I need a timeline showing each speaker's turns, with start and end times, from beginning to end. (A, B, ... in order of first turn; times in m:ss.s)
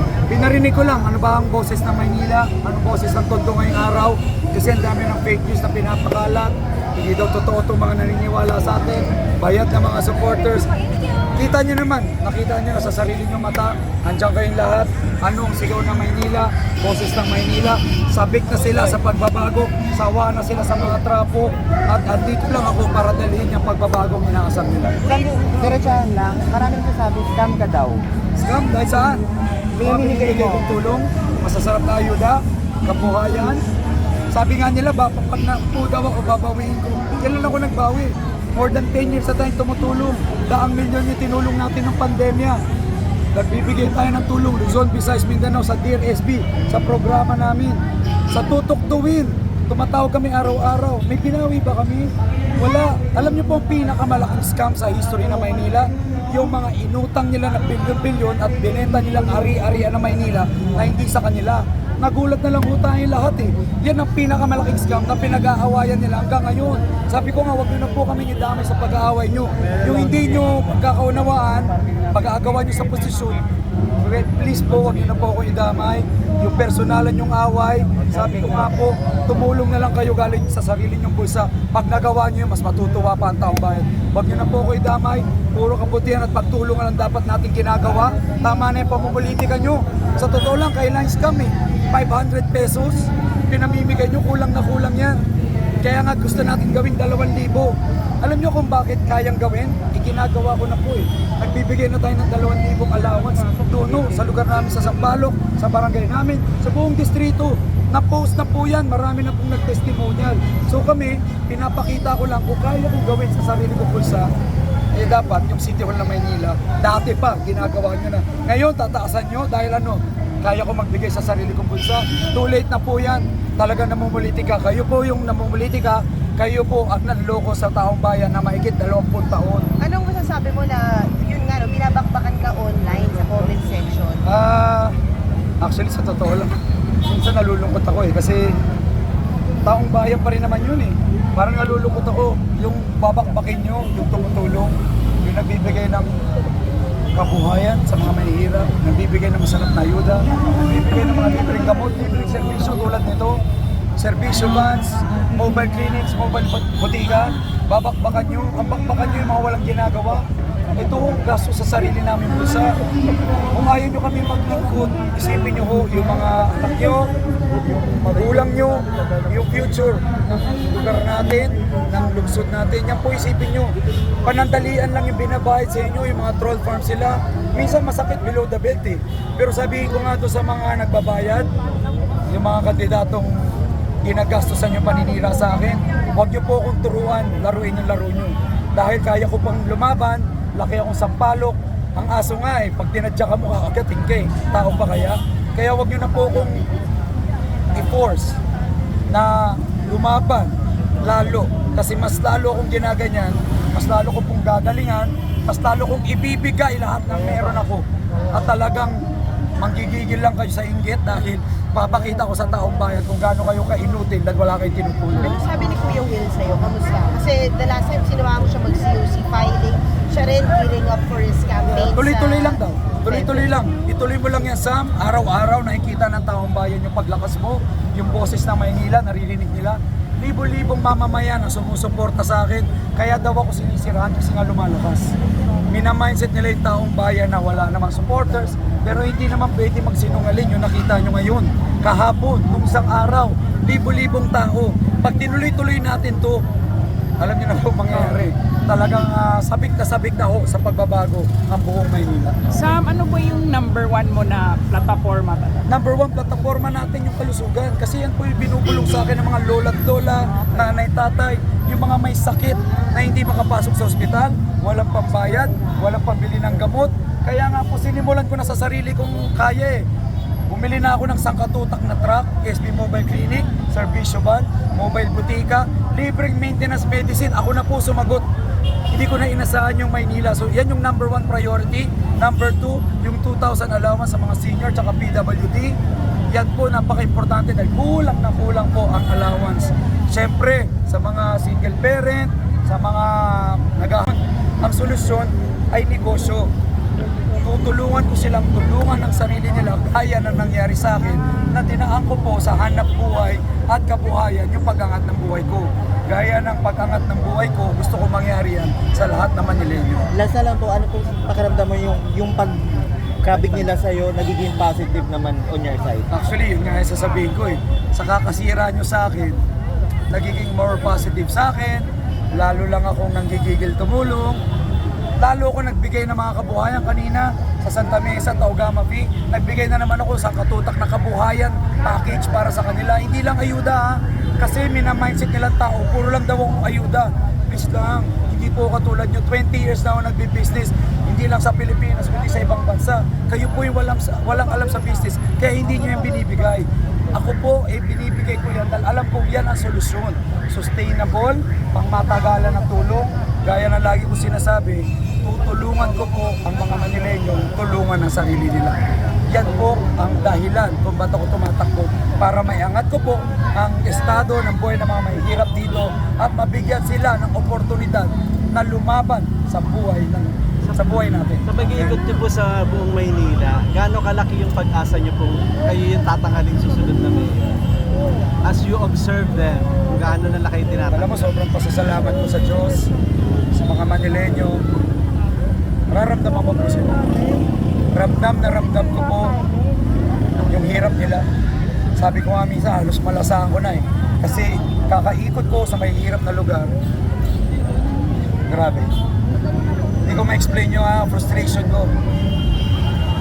0:00.3-0:10.7 A
0:11.3-0:25.0 A
0:25.1-0:28.0 B
0:28.4-0:29.2 A
0:29.8-0:33.6 A
0:29.8-0:30.6 B
0:34.3-0:42.6 A
0:43.3-1:13.5 A
1:14.0-1:35.2 A
1:35.8-1:54.3 A
1:54.9-2:09.7 A
2:09.8-2:14.2 C
2:14.2-2:15.0 A
2:15.6-2:18.5 A
2:19.6-2:26.1 A
2:27.1-2:33.4 A
2:34.0-2:42.7 A
2:43.5-2:47.1 A
2:47.7-2:53.7 A
2:54.2-3:01.5 A
3:02.3-3:16.6 A
3:17.7-3:18.4 A
3:19.1-3:29.0 A
3:29.6-3:35.4 A
3:35.2-3:43.6 C
3:41.8-3:55.1 A
3:55.7-4:06.4 A
4:07.2-4:12.7 A
4:12.5-4:15.6 D
4:15.7-4:29.9 A
4:30.5-4:38.2 A
4:38.9-4:45.8 A
4:46.3-4:56.5 A
4:57.4-5:10.1 A
5:10.1-5:16.1 B
5:16.1-5:19.4 A
5:20.1-5:24.4 A
5:25.2-5:58.8 A
5:59.3-6:12.0 A
6:11.4-6:17.5 E
6:18.4-6:21.2 E
6:20.9-6:22.9 A
6:23.5-6:24.6 A
6:25.9-6:27.0 A
6:27.9-6:29.4 A
6:30.4-6:31.2 A
6:32.0-6:36.7 A
6:38.4-6:38.9 A
6:40.0-6:41.9 A